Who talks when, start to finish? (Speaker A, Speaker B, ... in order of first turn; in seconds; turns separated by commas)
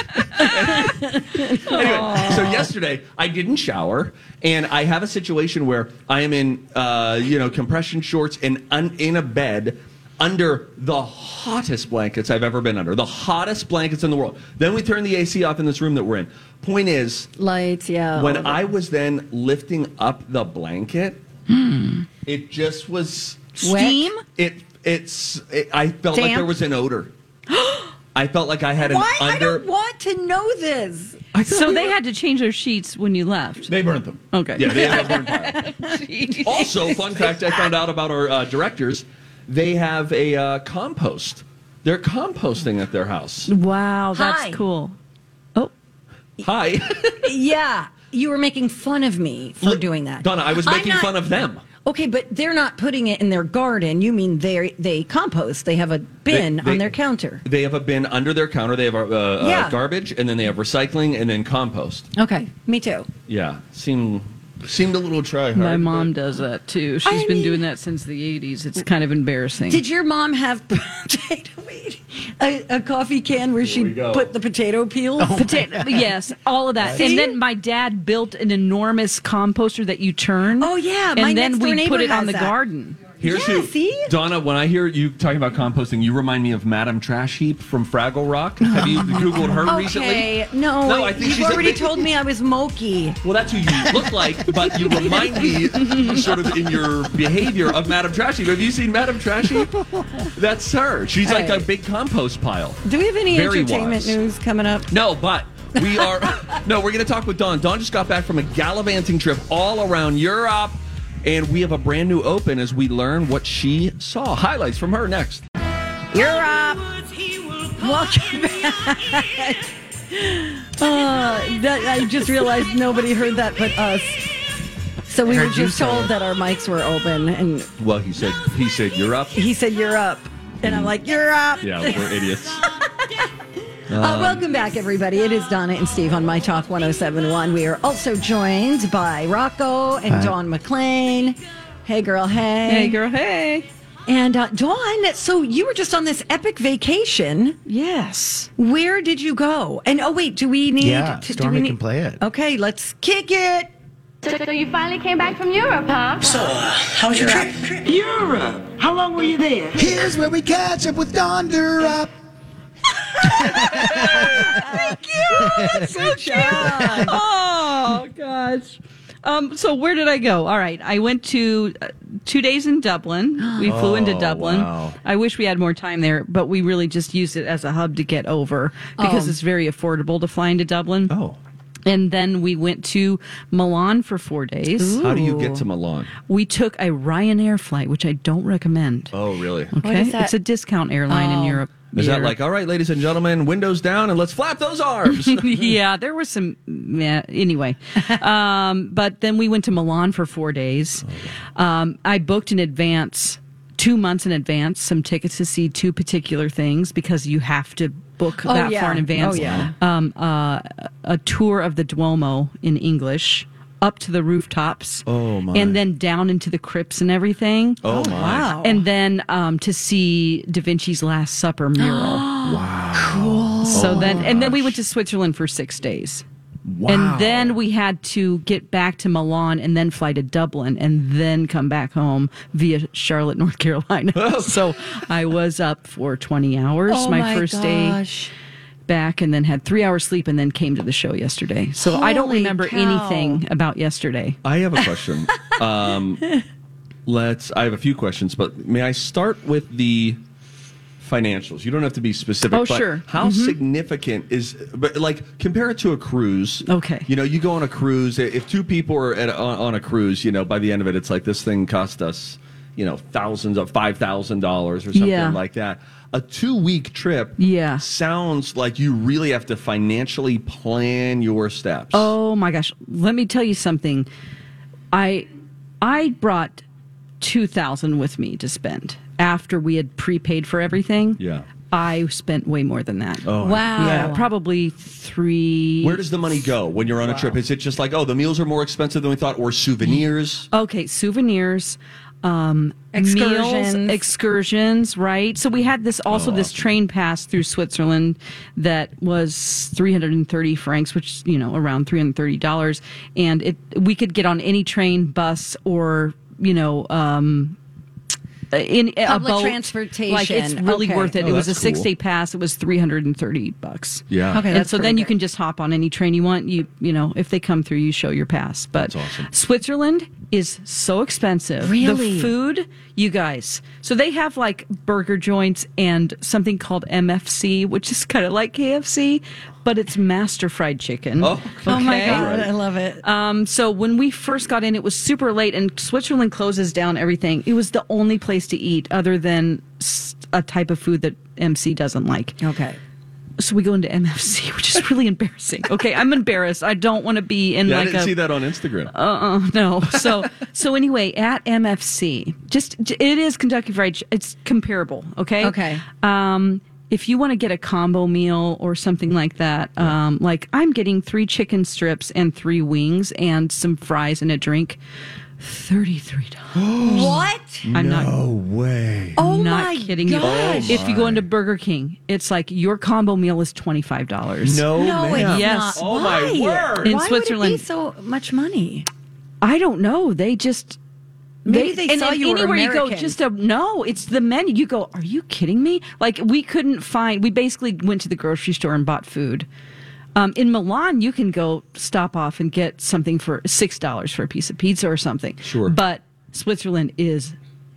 Speaker A: 0.3-17.3, Speaker B: 0.8-2.3, Speaker C: 1.5-2.7, Speaker B: 17.4-18.6, Speaker A: 18.1-21.2, Speaker A: 22.3-23.5, Speaker C: 23.6-24.2, Speaker B: 23.6-24.2, Speaker A: 24.4-27.1, Speaker B: 26.1-26.5, Speaker A: 28.1-29.6, Speaker B: 28.8-31.2, Speaker A: 31.3-31.9, Speaker C: 31.4-33.7, Speaker A: 33.7-35.7, Speaker C: 34.3-36.7, Speaker B: 34.6-36.0, Speaker A: 36.4-43.5, Speaker B: 36.5-37.7, Speaker C: 43.5-45.0, Speaker B: 44.1-44.6, Speaker A: 46.4-47.3, Speaker B: 47.2-51.2, Speaker A: 49.6-51.6, Speaker B: 51.9-57.4, Speaker A: 56.3-56.9, Speaker A: 57.5-62.1, Speaker B: 59.4-59.8, Speaker B: 62.2-63.1, Speaker A: 63.3-66.1, Speaker C: 65.5-69.8, Speaker B: 67.0-67.6, Speaker B: 69.7-75.7, Speaker A: 73.6-74.3, Speaker D: 75.2-76.1, Speaker C: 75.3-83.0, Speaker B: 76.9-77.4, Speaker B: 80.6-82.5, Speaker A: 83.2-92.1, Speaker B: 83.2-84.1, Speaker C: 88.6-89.7, Speaker B: 89.7-93.2, Speaker A: 93.2-104.2, Speaker B: 94.7-95.5, Speaker C: 95.8-96.2, Speaker B: 101.2-101.7, Speaker B: 102.8-104.9, Speaker A: 104.9-115.5, Speaker B: 116.1-117.0, Speaker B: 117.6-124.3, Speaker B: 125.1-127.7, Speaker D: 125.3-126.1, Speaker A: 127.8-129.4, Speaker B: 129.3-133.3, Speaker A: 130.6-130.9, Speaker A: 131.6-132.6, Speaker A: 133.9-134.4, Speaker B: 134.0-143.0, Speaker D: 140.1-140.3, Speaker C: 142.7-143.7, Speaker B: 144.1-147.6, Speaker C: 147.7-148.5, Speaker B: 148.6-153.7, Speaker D: 150.8-152.2, Speaker E: 154.2-156.3, Speaker F: 156.3-157.6, Speaker B: 157.2-157.5, Speaker F: 158.5-159.6, Speaker D: 159.7-162.1, Speaker D: 163.2-167.1, Speaker C: 163.7-181.1, Speaker B: 164.4-167.2, Speaker B: 173.4-173.7, Speaker A: 173.6-175.0, Speaker B: 179.0-179.4, Speaker A: 181.1-181.4, Speaker C: 181.9-185.1, Speaker B: 184.8-185.6, Speaker A: 185.0-186.1, Speaker C: 186.3-189.1, Speaker A: 189.1-189.7, Speaker C: 189.7-192.3, Speaker B: 189.8-190.3, Speaker B: 191.1-191.6, Speaker A: 191.9-195.7, Speaker C: 195.1-201.1, Speaker C: 201.6-217.8, Speaker B: 208.4-209.7, Speaker A: 209.3-209.7, Speaker A: 215.1-215.8, Speaker A: 217.8-218.5, Speaker B: 217.9-218.9, Speaker C: 218.5-222.3, Speaker B: 221.8-224.3, Speaker A: 222.4-224.8, Speaker C: 223.7-226.2, Speaker A: 226.7-227.6, Speaker C: 226.9-238.0, Speaker A: 234.2-234.8, Speaker B: 236.9-238.3, Speaker C: 238.9-244.4, Speaker B: 241.8-243.4, Speaker A: 244.4-246.3, Speaker A: 247.1-250.2, Speaker A: 251.0-272.1, Speaker C: 252.5-253.6, Speaker C: 256.7-257.1, Speaker C: 264.9-265.4, Speaker C: 267.4-267.9, Speaker C: 271.9-274.1, Speaker C: 274.9-275.3, Speaker C: 275.8-276.6, Speaker C: 277.2-286.0, Speaker A: 281.2-281.5, Speaker A: 283.3-284.2, Speaker B: 283.4-284.3, Speaker A: 285.8-290.5, Speaker C: 290.5-307.6, Speaker B: 292.9-294.1, Speaker A: 296.1-296.6, Speaker C: 308.5-332.4, Speaker B: 309.1-311.2, Speaker A: 311.2-311.9, Speaker A: 314.1-314.5, Speaker B: 314.3-315.1, Speaker A: 318.8-319.3, Speaker B: 321.6-322.3, Speaker A: 331.2-332.5, Speaker B: 331.7-333.0, Speaker C: 333.0-342.4, Speaker B: 342.4-342.8, Speaker C: 343.4-348.2, Speaker A: 347.7-348.9, Speaker C: 348.9-364.8, Speaker B: 355.4-355.9, Speaker C: 365.4-367.2, Speaker A: 366.5-369.2, Speaker B: 366.8-367.7, Speaker C: 367.7-368.1, Speaker B: 369.2-370.8, Speaker C: 369.2-375.9, Speaker A: 370.2-371.3, Speaker A: 374.4-377.0, Speaker B: 374.7-378.9, Speaker C: 376.8-377.6, Speaker C: 379.4-380.8, Speaker C: 381.4-389.5, Speaker B: 381.5-383.2, Speaker C: 390.1-397.4, Speaker A: 395.4-395.8